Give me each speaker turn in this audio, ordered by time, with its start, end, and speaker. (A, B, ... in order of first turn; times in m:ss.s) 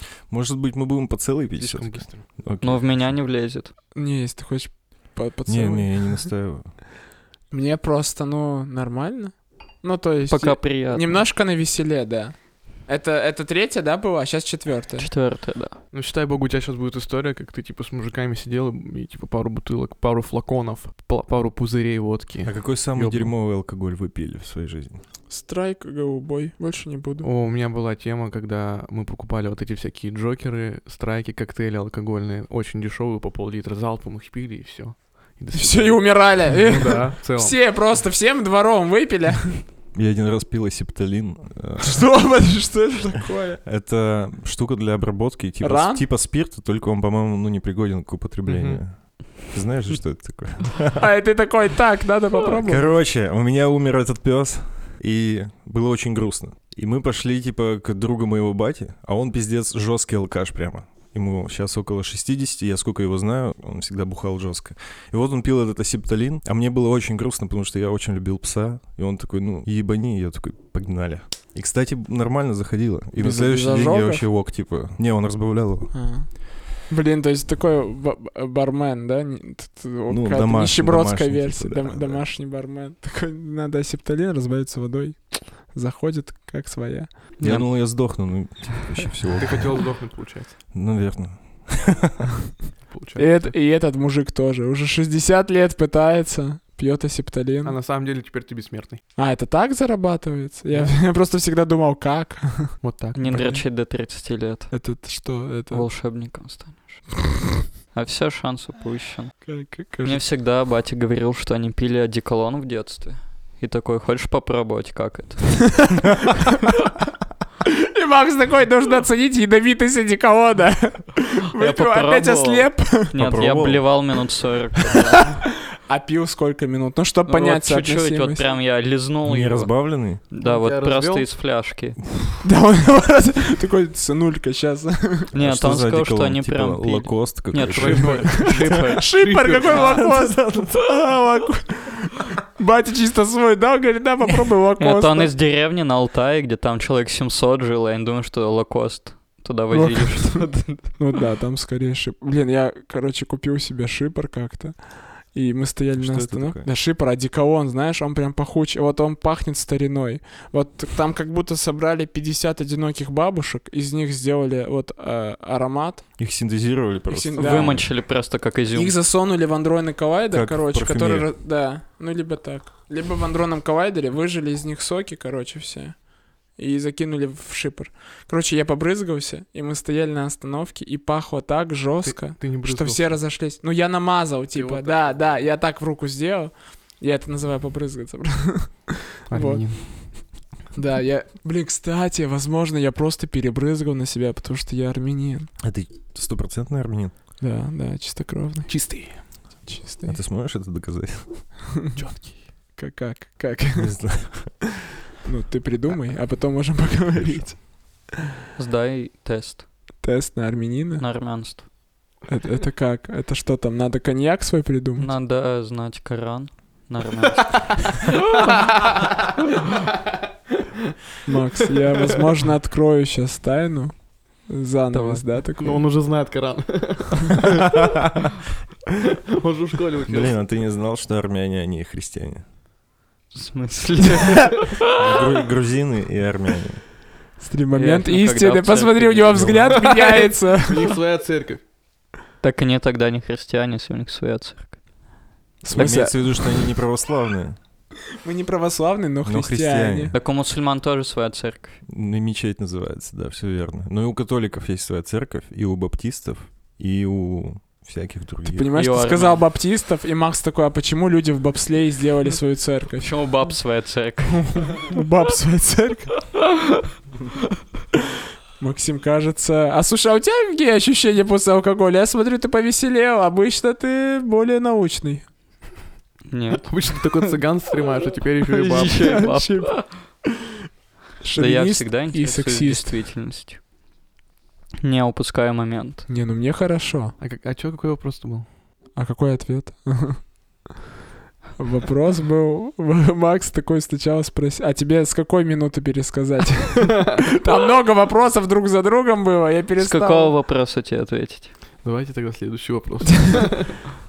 0:00.3-0:03.0 A
0:01.6-0:02.3 B
0:02.6-0:03.7 C
0:03.9-0:06.3 D
0:05.4-0:06.7 A
0:07.5-0:15.1 D
0:10.3-0:11.2 C
0:15.0-0:15.8 C
0:15.9-0:23.3 B
0:22.4-0:25.0 A
0:25.3-0:27.3 D
0:27.2-0:37.7 B
0:35.5-0:39.6 D
0:39.9-0:42.4 A
0:41.8-0:43.6 D
0:43.6-0:51.0 A
0:45.6-0:46.0 D
0:48.4-0:48.8 B
0:51.0-0:52.9 D
0:52.5-1:16.0 A
1:13.1-1:14.2 D
1:15.9-1:27.1 D
1:20.1-1:22.2 A
1:27.4-1:27.7 C
1:27.4-1:29.8 A
1:29.4-1:30.6 B
1:30.7-1:32.2 A
1:32.9-1:33.6 B
1:33.2-1:37.8 D
1:37.6-1:39.0 B
1:39.2-1:43.6 D
1:40.7-1:41.0 B
1:42.8-1:43.2 B
1:43.1-1:44.7 C
1:44.7-1:45.9 D
1:45.7-1:47.2 C
1:47.9-1:56.0 C
1:49.4-1:50.2 D
1:57.8-2:03.1 D
2:01.6-2:05.3 C
2:03.1-2:04.0 A
2:05.3-2:08.5 D
2:07.3-2:12.0 C
2:09.2-2:10.2 A
2:10.4-2:11.3 B
2:12.4-2:15.3 D
2:15.3-2:20.0 C
2:15.3-2:18.7 A
2:17.6-2:20.0 B
2:18.3-2:25.3 D
2:19.7-2:21.0 A
2:24.8-2:30.8 C
2:29.7-2:46.1 D
2:35.9-2:36.7 A
2:46.2-2:47.9 A
2:47.1-2:48.0 D
2:47.4-2:49.0 C
2:48.7-3:15.5 D
2:50.3-2:51.3 A
3:02.0-3:03.2 B
3:04.5-3:05.2 B
3:09.3-3:09.9 B
3:15.6-3:17.1 A
3:17.4-3:20.2 D
3:18.7-3:19.3 B
3:20.0-3:21.7 A
3:21.9-3:22.4 B
3:22.8-3:24.5 D
3:23.8-3:24.6 A
3:25.2-3:28.0 D
3:27.1-3:27.5 A
3:28.6-3:29.7 C
3:30.0-3:31.0 D
3:31.0-3:31.7 C
3:32.3-3:35.1 D
3:35.0-3:38.0 C
3:38.6-3:38.9 B
3:41.2-3:45.9 D
3:44.9-3:45.2 C
3:45.6-3:47.5 B
3:49.4-3:50.4 B
3:50.0-3:52.4 A
3:53.3-3:54.8 C
3:54.9-3:56.9 A
3:57.4-4:00.9 D
3:57.7-4:00.0 C
3:59.8-4:01.6 B
4:02.4-4:04.8 C
4:05.6-4:06.5 D
4:05.7-4:07.6 A
4:08.2-4:10.1 D
4:09.2-4:10.1 A
4:10.1-4:11.8 C
4:11.8-4:18.7 A
4:18.4-4:23.4 D
4:18.8-4:19.4 C
4:23.0-4:24.8 C
4:24.4-4:26.3 D
4:28.6-4:35.3 D
4:36.3-4:37.3 C
4:36.6-4:39.1 B
4:38.5-4:40.1 C
4:38.9-4:40.3 D
4:41.2-4:43.0 D
4:41.4-4:43.6 C
4:44.8-4:46.0 C
4:46.1-4:47.2 D
4:47.2-4:48.5 B
4:48.9-4:50.3 D
4:51.6-5:00.3 D
4:59.8-5:01.5 C
5:01.8-5:03.8 B